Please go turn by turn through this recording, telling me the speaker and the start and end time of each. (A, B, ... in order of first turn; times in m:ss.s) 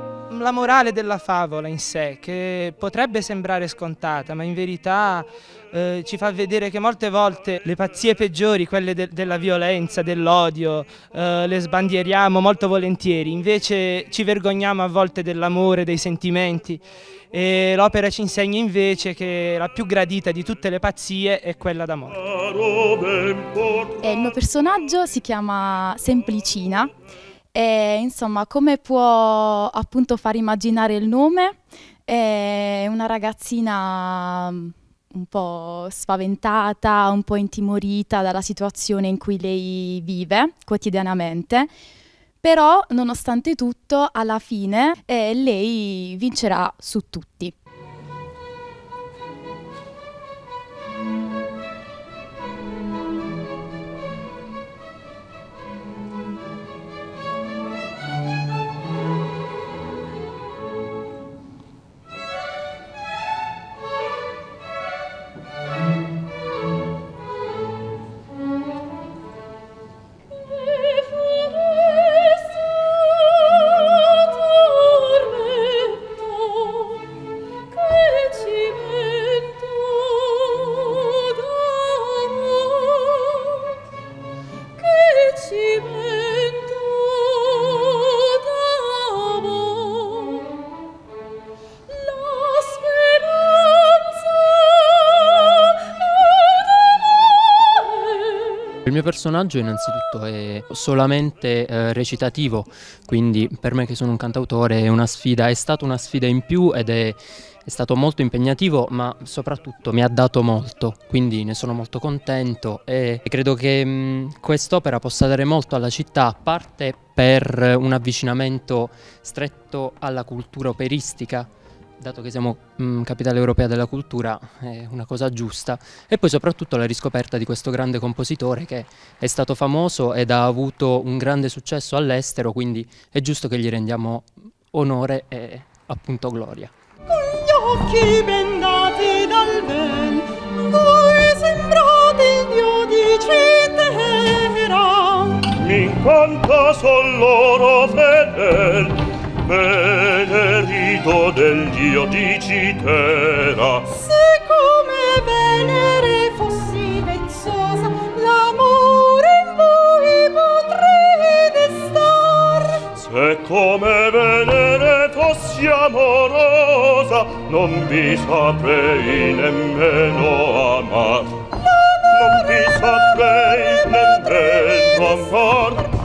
0:00.3-0:22.2 A
0:22.2-0:24.5 B
0:24.0-0:26.9 C
0:27.5-0:41.7 C
0:42.4-0:47.5 C
1:17.9-1:18.8 D
1:21.8-1:22.3 D
1:24.8-1:27.7 D
1:28.9-1:29.5 D
1:31.9-1:35.4 D
1:38.8-2:16.7 E
2:17.1-2:25.5 D
2:25.5-2:33.9 B
2:33.9-2:42.8 D
2:43.0-2:51.4 B
2:52.1-2:55.8 B